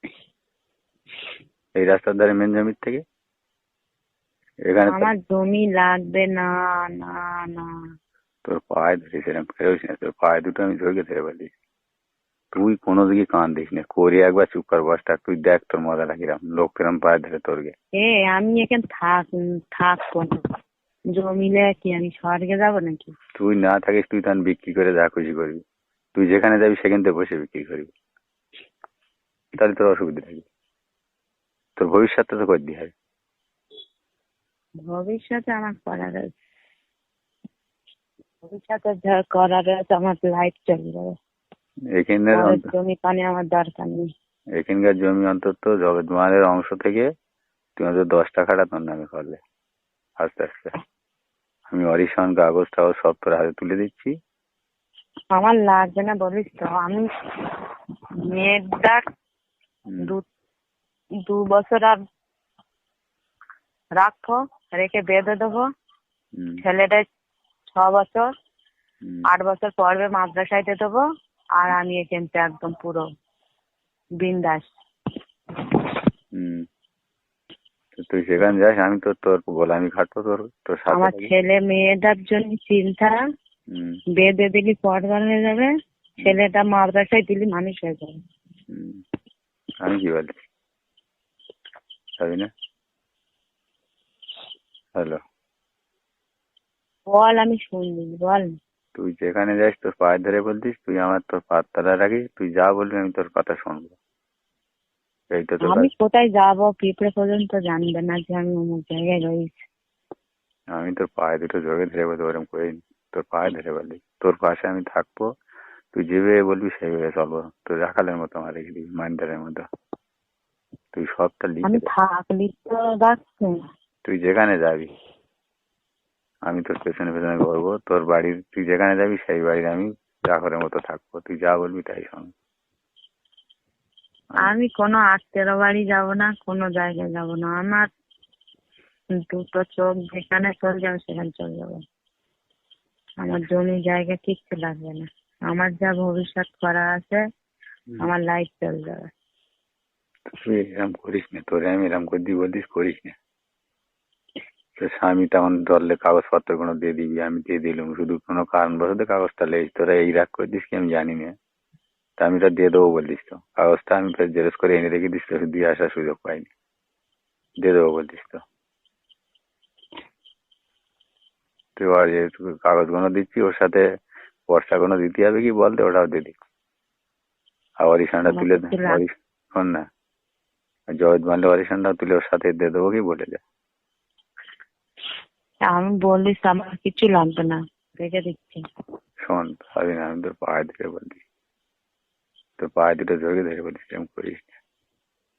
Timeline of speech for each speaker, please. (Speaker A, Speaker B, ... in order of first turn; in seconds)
Speaker A: 1.8-3.0, 4.7-5.1, 8.4-11.5, 12.5-17.7, 23.4-25.6, 26.1-27.9, 29.6-30.4, 31.8-32.9, 41.9-42.6, 44.6-47.1, 47.8-49.4, 50.2-50.7, 51.7-54.1, 59.9-60.1, 66.3-66.6, 76.3-76.7, 77.9-81.3, 83.7-84.0, 88.7-89.0, 89.8-90.5, 92.2-92.5, 95.0-95.2, 98.9-104.0, 105.3-105.9, 110.7-115.3, 115.9-119.7, 120.9-121.9, 124.0-124.9, 126.5-132.3, 150.3-153.2, 154.8-161.3, 162.2-166.5, 167.6-168.4, 171.8-173.8, 174.5-176.4, 177.8-179.8, 180.9-183.4, 189.2-191.2, 192.6-194.6
Speaker B: 4.9-7.7, 18.0-20.4, 21.1-23.1, 34.9-36.3, 38.4-41.2, 42.3-44.1, 55.3-57.6, 58.3-59.0, 61.2-62.0, 64.0-65.7, 66.6-67.0, 67.7-68.3, 69.3-71.0, 71.6-73.1, 74.2-74.7, 80.9-83.2, 84.2-88.2, 97.1-98.5, 105.6-109.7, 121.7-123.6, 134.4-137.9, 139.2-141.8, 143.2-147.2, 148.0-149.1, 178.3-179.0, 185.7-188.6